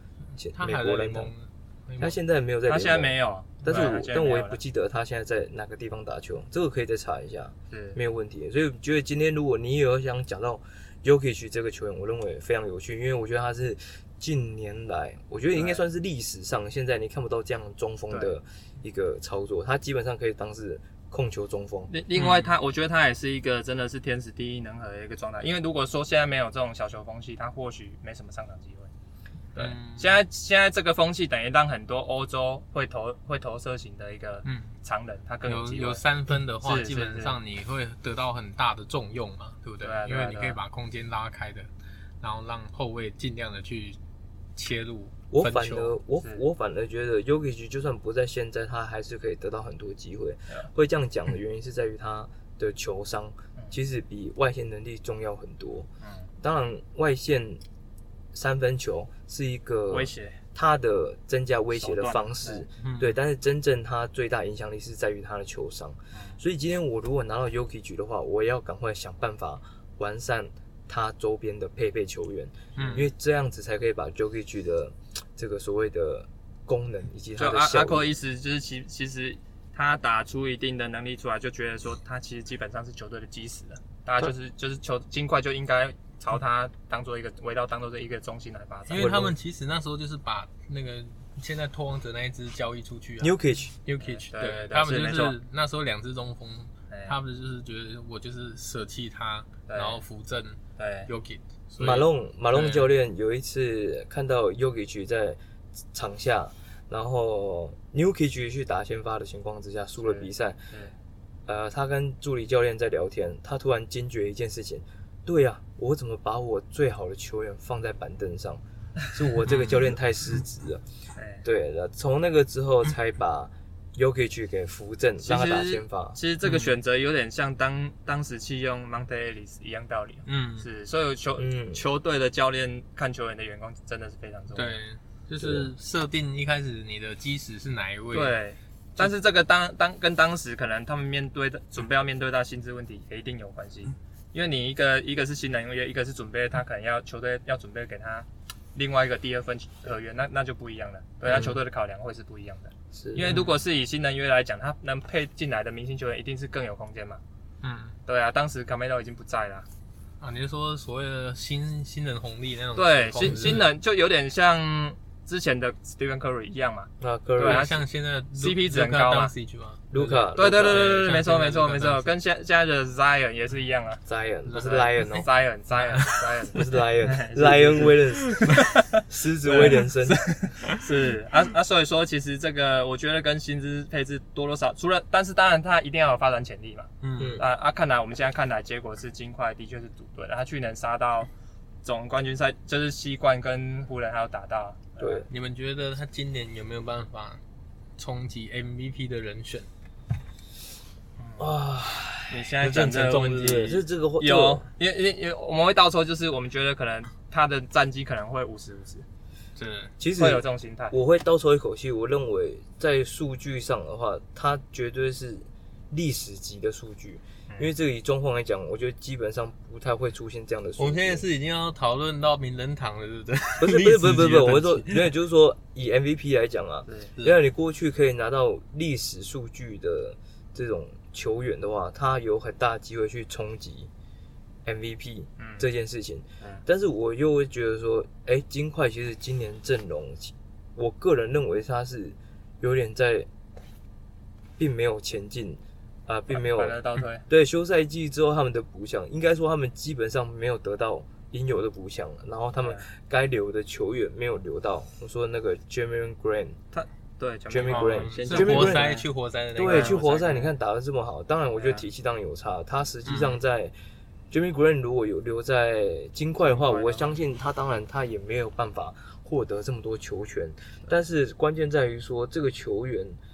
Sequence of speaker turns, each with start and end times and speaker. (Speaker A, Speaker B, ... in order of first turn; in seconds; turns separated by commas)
Speaker A: 0.4-1.3, Speaker B: 0.4-2.2, Speaker A: 2.0-21.9, Speaker C: 2.7-4.6, Speaker C: 7.7-8.0, Speaker C: 15.6-15.8, Speaker C: 18.1-18.4, Speaker C: 21.9-28.9, Speaker B: 22.2-22.5, Speaker C: 29.5-36.0, Speaker B: 29.6-30.2, Speaker B: 34.5-34.7, Speaker B: 35.5-41.7, Speaker C: 36.6-37.4, Speaker C: 39.8-40.6, Speaker B: 42.2-44.0, Speaker B: 44.6-46.0, Speaker A: 45.3-55.9, Speaker C: 56.0-56.3, Speaker A: 56.4-57.6, Speaker A: 58.3-78.1, Speaker C: 59.9-60.4, Speaker C: 61.8-62.6, Speaker B: 62.8-63.2, Speaker C: 66.1-66.4, Speaker B: 72.8-73.1, Speaker C: 77.4-89.1, Speaker B: 88.9-93.3, Speaker A: 89.0-89.3, Speaker A: 93.2-93.8, Speaker B: 93.8-102.9, Speaker C: 94.0-95.4, Speaker C: 96.9-97.2, Speaker C: 99.7-100.0, Speaker C: 100.8-101.1, Speaker A: 101.8-105.4, Speaker A: 105.9-110.6, Speaker C: 110.0-110.9, Speaker A: 111.5-120.8, Speaker B: 119.5-119.9, Speaker C: 121.2-121.5, Speaker A: 121.4-126.2, Speaker C: 125.2-134.8, Speaker B: 126.5-126.8, Speaker B: 130.3-130.7, Speaker A: 131.4-131.8, Speaker B: 134.5-138.4, Speaker A: 135.4-135.7, Speaker C: 138.1-157.2, Speaker A: 151.3-151.6, Speaker A: 152.9-153.4, Speaker B: 157.6-158.0, Speaker C: 158.1-159.7, Speaker B: 160.2-163.7, Speaker C: 162.8-169.3, Speaker A: 167.0-167.7, Speaker B: 167.4-172.1, Speaker A: 169.9-170.9, Speaker C: 170.4-174.0, Speaker A: 174.1-175.3, Speaker B: 174.5-175.2, Speaker C: 174.6-191.3, Speaker B: 175.8-176.2, Speaker A: 176.5-180.2, Speaker B: 187.0-187.4, Speaker A: 187.2-187.4, Speaker C: 191.8-195.2, Speaker A: 195.0-195.3, Speaker B: 195.3-197.4, Speaker B: 198.0-199.7, Speaker C: 201.2-201.5, Speaker A: 201.4-204.7, Speaker C: 202.3-209.1, Speaker B: 209.6-209.9, Speaker A: 210.0-221.3, Speaker C: 210.2-211.0, Speaker B: 220.8-225.1, Speaker A: 223.6-233.9, Speaker A: 234.7-243.3, Speaker C: 235.4-235.7, Speaker A: 244.6-256.6, Speaker C: 246.3-247.2, Speaker C: 256.7-259.1, Speaker A: 257.5-258.9, Speaker B: 257.6-260.3, Speaker A: 259.6-263.7, Speaker C: 259.6-260.5, Speaker C: 261.6-261.9, Speaker B: 263.1-263.4, Speaker A: 264.3-273.2, Speaker C: 266.6-267.1